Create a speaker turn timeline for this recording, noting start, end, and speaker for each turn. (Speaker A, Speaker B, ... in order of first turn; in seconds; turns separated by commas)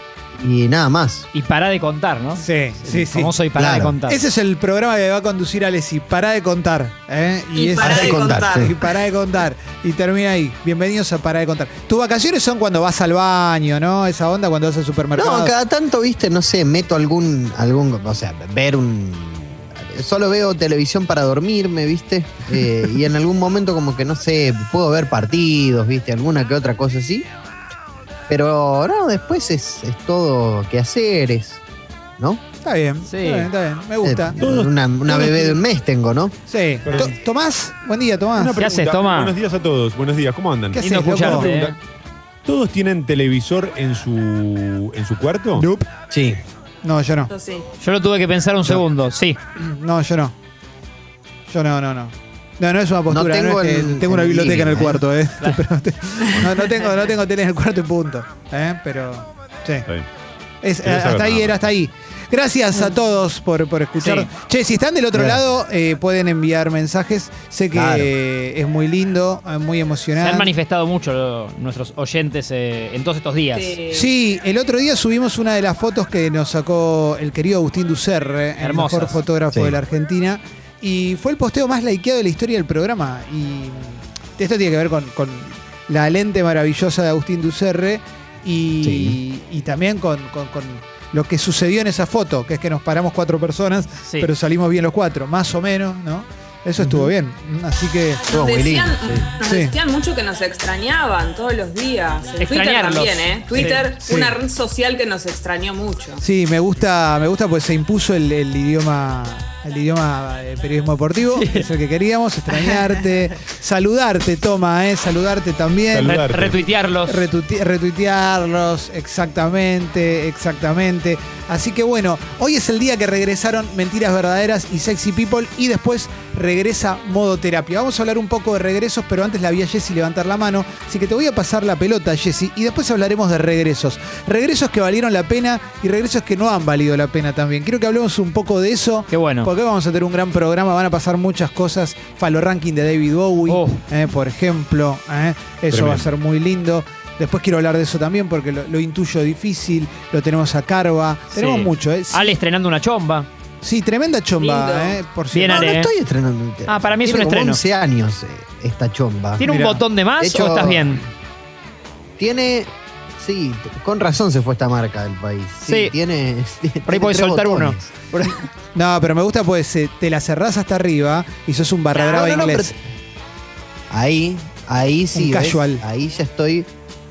Speaker A: 0.3-1.3, Speaker B: 1.3-4.2, Speaker C: 2.4-15.5, Speaker A: 3.5-3.9, Speaker D: 7.5-8.9, Speaker A: 7.8-8.7, Speaker A: 15.1-27.3, Speaker A: 28.3-31.6, Speaker C: 32.6-34.4, Speaker B: 33.0-33.5, Speaker A: 34.0-36.4, Speaker E: 34.4-34.7, Speaker C: 35.1-35.6, Speaker C: 36.5-38.6, Speaker E: 36.9-37.1, Speaker E: 38.3-41.7, Speaker B: 38.6-39.3, Speaker C: 40.7-41.5, Speaker B: 40.8-41.8, Speaker E: 42.4-45.7, Speaker C: 45.5-45.9, Speaker A: 46.1-46.4, Speaker C: 46.8-47.3, Speaker D: 47.3-47.6, Speaker B: 47.8-49.4, Speaker C: 49.5-50.3, Speaker C: 51.5-59.9, Speaker A: 53.1-55.0, Speaker C: 60.6-70.5, Speaker E: 60.8-61.6, Speaker B: 64.0-64.3, Speaker A: 65.1-65.4, Speaker A: 67.7-68.1, Speaker B: 70.2-73.8, Speaker D: 73.5-74.1, Speaker C: 73.9-98.2, Speaker B: 78.6-79.2, Speaker A: 79.5-79.8, Speaker A: 88.8-89.2, Speaker B: 94.0-94.3, Speaker A: 96.8-97.1, Speaker D: 98.3-106.2, Speaker A: 98.3-99.2, Speaker C: 99.4-99.7, Speaker B: 102.4-103.8, Speaker C: 103.6-104.3, Speaker C: 106.2-116.2, Speaker B: 111.3-111.7, Speaker E: 115.9-116.6, Speaker B: 116.0-117.2, Speaker C: 117.1-152.4, Speaker B: 139.1-139.5, Speaker B: 143.5-143.8, Speaker E: 145.7-146.1, Speaker B: 151.3-153.3, Speaker C: 153.6-155.7, Speaker D: 154.4-155.0, Speaker B: 155.3-155.9, Speaker A: 155.5-159.5, Speaker B: 156.7-157.6, Speaker B: 159.4-161.0, Speaker C: 159.4-159.8, Speaker A: 160.2-161.0, Speaker A: 162.2-167.9, Speaker B: 165.7-165.9, Speaker B: 166.9-168.5, Speaker C: 168.7-172.7, Speaker A: 171.9-172.7, Speaker A: 173.9-176.7, Speaker C: 175.1-175.8